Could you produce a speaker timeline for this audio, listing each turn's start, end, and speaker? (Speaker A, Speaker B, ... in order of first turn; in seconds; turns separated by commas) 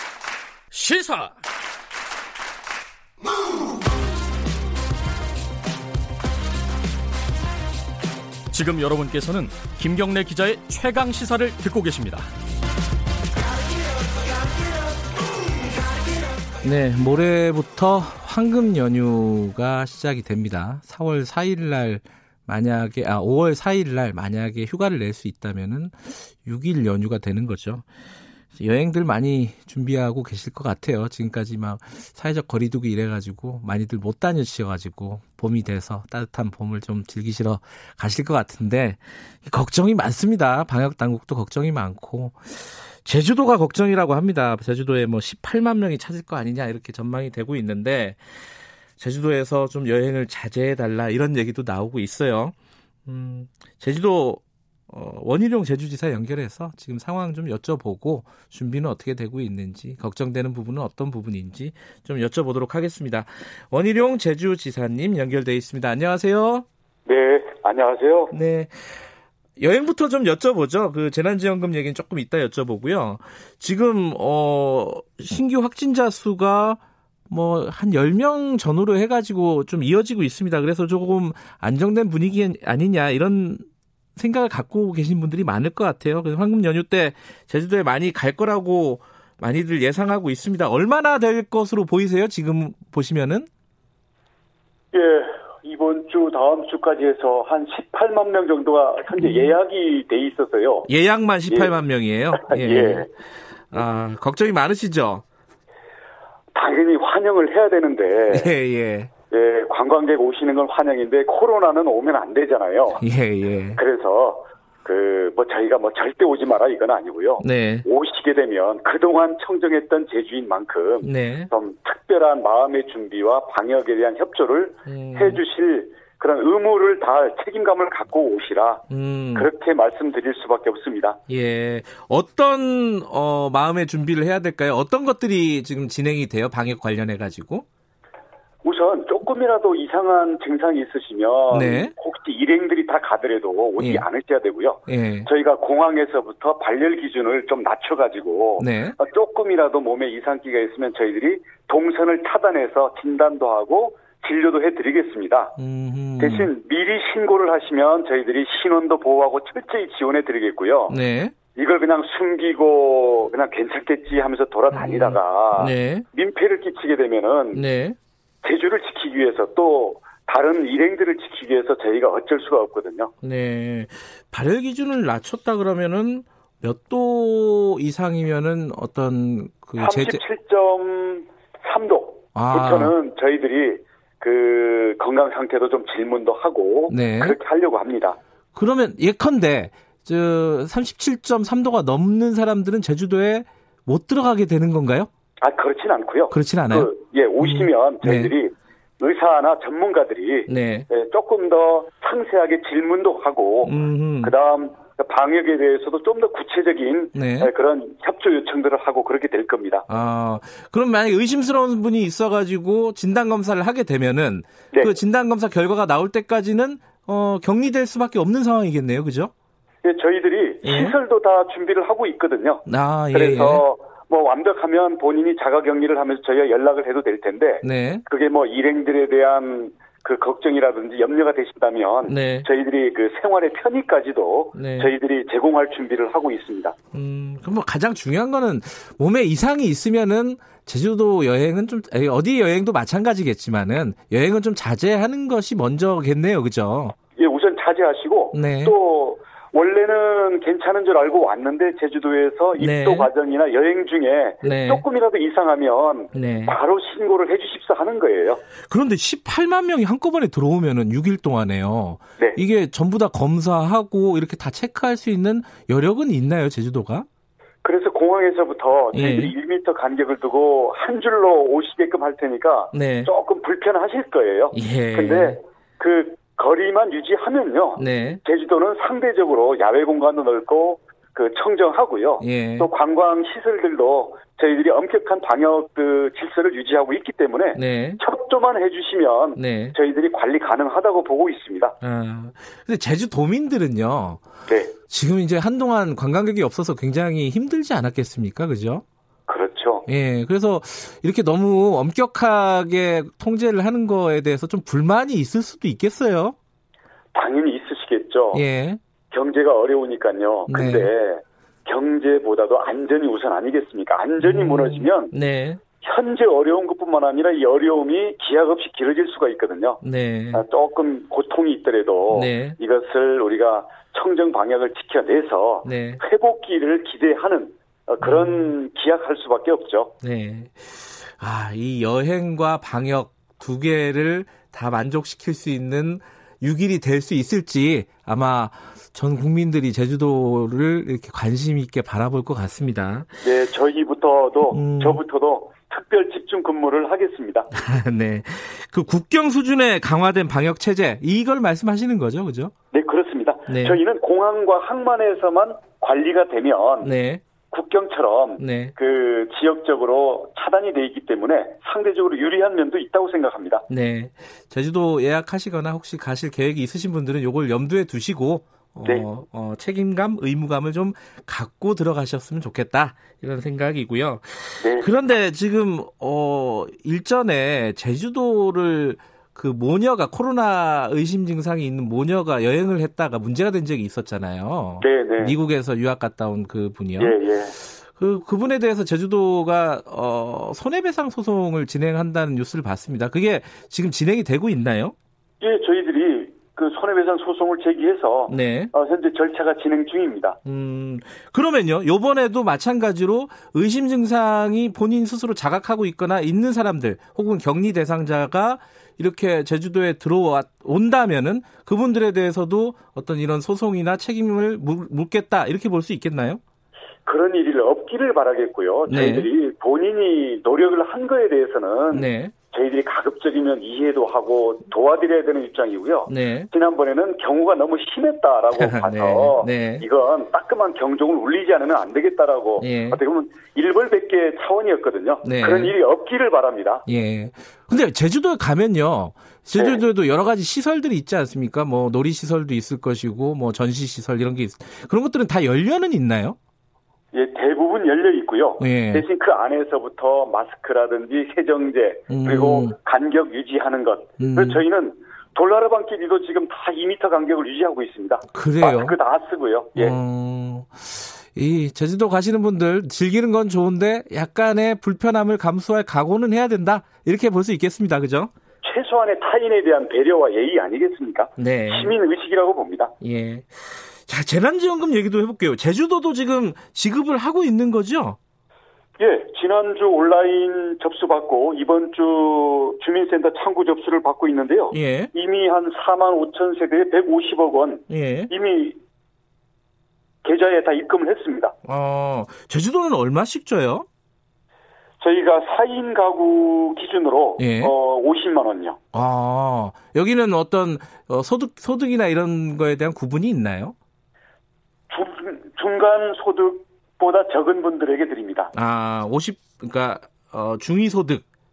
Speaker A: 0.7-1.3, Speaker A: 8.5-12.3, Speaker B: 16.6-27.8, Speaker B: 28.6-48.2, Speaker B: 49.0-52.5, Speaker B: 53.0-66.7, Speaker C: 67.1-68.3, Speaker B: 68.3-68.9, Speaker B: 69.6-83.6, Speaker B: 84.2-93.5, Speaker C: 94.9-100.9, Speaker B: 99.2-99.5, Speaker B: 100.9-103.1, Speaker C: 101.5-101.8, Speaker C: 102.3-103.1, Speaker B: 103.7-105.2, Speaker C: 106.5-108.5, Speaker B: 108.3-109.1, Speaker C: 109.3-113.0, Speaker B: 113.0-113.8, Speaker C: 113.8-128.8, Speaker B: 117.4-117.9, Speaker B: 121.0-121.5, Speaker B: 124.9-125.4, Speaker B: 128.9-129.5, Speaker C: 129.3-131.2, Speaker B: 131.3-137.7, Speaker C: 138.6-155.6, Speaker B: 141.5-141.9, Speaker B: 143.8-144.1, Speaker B: 144.9-145.3, Speaker B: 148.6-149.0, Speaker B: 155.6-156.5, Speaker C: 156.2-161.0, Speaker B: 160.9-161.3, Speaker C: 161.6-167.6, Speaker B: 164.7-166.1, Speaker B: 167.5-168.0, Speaker C: 168.4-173.1, Speaker B: 173.2-180.2, Speaker C: 179.8-188.2, Speaker B: 182.3-182.9, Speaker B: 186.9-187.4, Speaker B: 188.6-195.1, Speaker C: 195.4-209.9, Speaker B: 196.3-198.3, Speaker B: 200.5-200.9, Speaker B: 203.6-204.3, Speaker B: 207.1-207.5, Speaker B: 209.9-219.3, Speaker C: 219.8-236.8, Speaker B: 220.6-221.0, Speaker B: 222.7-223.6, Speaker B: 227.6-228.1, Speaker B: 232.1-232.5, Speaker B: 234.5-234.9, Speaker B: 236.9-246.9, Speaker C: 247.2-258.4, Speaker B: 248.3-248.8, Speaker B: 252.6-253.1, Speaker B: 254.4-254.8, Speaker B: 256.1-256.6, Speaker B: 258.7-267.1, Speaker C: 267.6-291.8, Speaker B: 268.9-269.3, Speaker B: 272.7-273.1, Speaker B: 274.5-275.4, Speaker B: 277.8-278.2, Speaker B: 282.2-282.7, Speaker B: 287.6-288.0, Speaker B: 289.4-289.8, Speaker B: 291.8-294.2, Speaker C: 294.5-294.7, Speaker B: 294.9-298.8, Speaker C: 299.3-299.9, Speaker B: 299.9-306.4, Speaker C: 307.1-308.4, Speaker B: 308.3-308.8, Speaker C: 309.1-315.1, Speaker B: 310.5-310.9, Speaker B: 314.2-315.6, Speaker C: 315.8-319.8, Speaker B: 319.8-320.4, Speaker C: 320.3-329.9, Speaker B: 322.1-322.6, Speaker B: 325.6-326.0, Speaker B: 328.0-328.5, Speaker B: 330.0-343.1, Speaker C: 343.2-347.5, Speaker B: 344.5-345.0, Speaker B: 347.5-352.5, Speaker C: 352.7-356.9, Speaker B: 353.5-353.8, Speaker B: 356.8-357.2, Speaker C: 357.5-363.7, Speaker B: 358.4-358.7, Speaker B: 363.7-387.2, Speaker C: 374.6-374.9, Speaker C: 384.8-385.4, Speaker C: 387.0-387.6, Speaker B: 387.8-394.9, Speaker C: 395.4-400.4, Speaker B: 398.3-398.7, Speaker B: 400.4-416.4, Speaker C: 417.1-436.9, Speaker B: 418.9-419.3, Speaker B: 421.9-422.3, Speaker B: 426.1-426.5, Speaker B: 428.5-429.8, Speaker B: 432.6-433.0, Speaker B: 435.2-435.7, Speaker B: 436.9-446.4, Speaker C: 439.6-439.8, Speaker C: 447.1-460.0, Speaker B: 448.6-449.1, Speaker B: 452.1-452.7, Speaker B: 454.2-454.6, Speaker B: 458.3-459.0, Speaker B: 459.8-468.3, Speaker C: 468.6-472.9, Speaker B: 471.4-471.9, Speaker B: 473.0-478.2, Speaker C: 479.0-488.8, Speaker B: 484.7-485.1, Speaker B: 487.9-488.3, Speaker C: 490.2-491.6, Speaker B: 491.6-493.9, Speaker C: 495.0-498.8, Speaker B: 497.4-497.7, Speaker B: 498.9-503.8, Speaker C: 504.9-508.5, Speaker B: 508.5-511.2